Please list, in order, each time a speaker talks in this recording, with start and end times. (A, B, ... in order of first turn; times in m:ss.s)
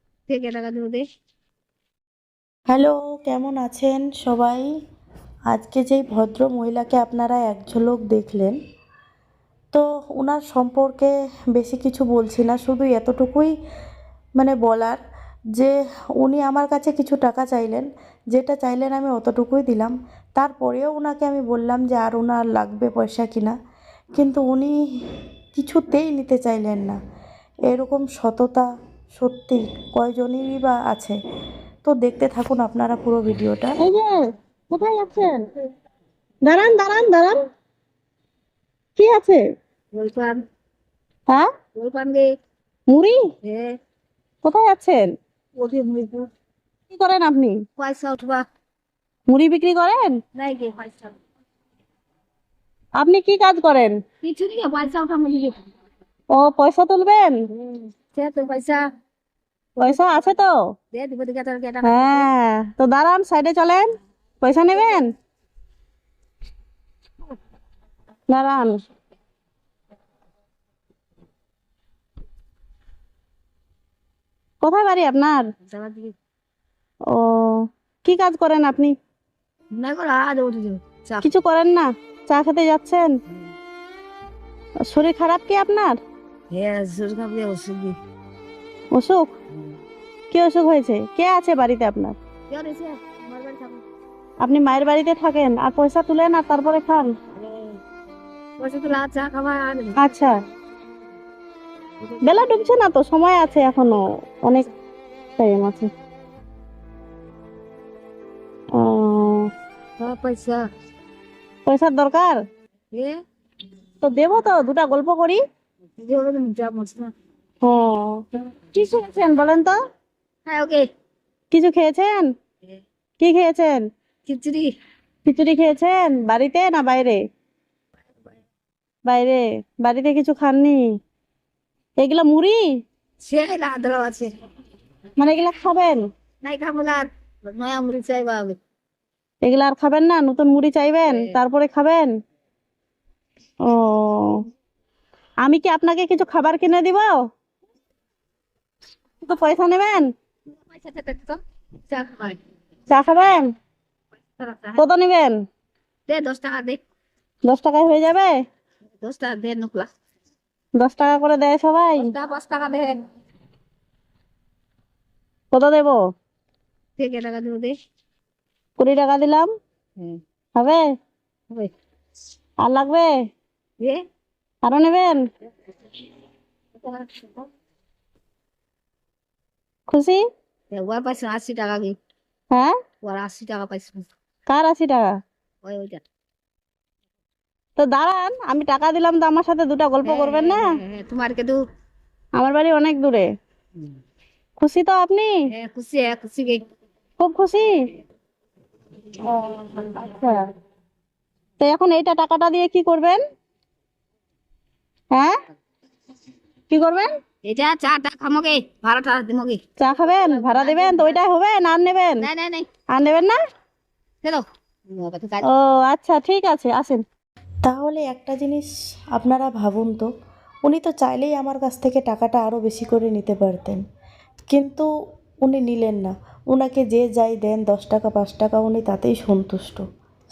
0:00.3-0:01.0 A
0:02.7-0:04.7 B
0:05.5-0:08.6 B
0:09.7-0:13.5 B
0:14.4-0:15.0 B
0:15.5-0:23.5 B
0:24.2-0:24.7 B
0:25.5-0:27.0 B
0:27.7-0:31.1 B
0:31.8-0:33.7 B
0:33.8-0:35.4 C
0:36.4-0:37.4 C
0:39.0-0:39.4 C
0:39.9-0:40.4 A
0:41.8-0:42.3 A
0:42.9-0:43.2 C
0:43.4-0:43.8 A
0:44.4-0:45.1 C
0:45.6-0:46.3 A
0:46.9-0:47.6 C
0:47.8-0:48.4 A
0:49.3-0:50.2 C
0:50.4-0:51.2 A
0:53.0-0:54.0 C
0:54.2-0:55.6 A
0:56.3-0:57.4 C
0:57.6-0:58.8 A
0:59.8-1:00.3 A
0:59.8-1:00.5 C
1:00.9-1:02.3 A
1:01.8-1:05.1 C
1:08.3-1:08.7 C
1:14.6-1:15.4 C
1:15.7-1:16.1 A
1:17.1-1:18.9 C
1:19.7-1:21.3 A
1:21.2-1:23.1 C
1:24.8-1:26.0 C
1:26.5-1:28.0 A
1:28.9-1:29.3 C
1:30.3-1:32.2 C
1:32.5-1:33.8 A
1:34.4-1:37.1 C
1:37.4-1:37.8 A
1:38.6-1:40.0 A
1:40.0-1:40.3 C
1:42.0-1:42.7 A
1:42.2-1:44.6 C
1:45.4-1:45.9 C
1:48.7-1:49.5 C
1:50.0-1:50.6 A
1:51.6-1:52.4 C
1:54.0-1:55.4 C
1:56.0-1:57.1 A
1:57.6-1:59.8 C
2:00.4-2:00.9 A
2:01.5-2:02.3 C
2:03.2-2:03.8 C
2:04.3-2:04.7 A
2:05.2-2:07.2 C
2:09.1-2:10.8 C
2:12.0-2:12.6 C
2:13.2-2:14.3 A
2:15.2-2:16.0 C
2:16.4-2:18.6 A
2:19.4-2:22.1 C
2:23.6-2:24.4 C
2:25.4-2:27.2 C
2:29.2-2:30.1 C
2:30.6-2:32.4 A
2:32.9-2:33.5 C
2:34.4-2:34.8 A
2:34.8-2:35.4 C
2:36.1-2:36.8 A
2:37.4-2:38.4 C
2:39.0-2:39.9 A
2:40.8-2:42.1 C
2:42.0-2:43.0 A
2:45.5-2:46.0 C
2:47.0-2:47.7 A
2:48.8-2:49.5 C
2:50.6-2:50.8 C
2:52.6-2:53.1 C
2:54.6-2:55.2 C
2:56.8-2:57.4 A
2:59.9-3:00.2 C
3:00.7-3:02.0 A
3:03.0-3:04.1 A
3:04.5-3:05.1 C
3:05.6-3:06.0 A
3:07.8-3:10.6 C
3:10.0-3:11.6 A
3:12.4-3:13.3 C
3:14.6-3:15.3 C
3:15.6-3:16.6 A
3:17.2-3:17.7 C
3:19.2-3:20.5 C
3:21.6-3:23.2 C
3:26.7-3:27.1 C
3:27.4-3:31.2 A
3:29.8-3:32.3 C
3:32.2-3:32.7 A
3:32.9-3:33.4 C
3:34.2-3:35.5 A
3:35.5-3:37.0 C
3:37.6-3:40.1 B
3:40.6-3:43.8 B
3:44.5-3:44.9 B
3:45.4-3:49.8 B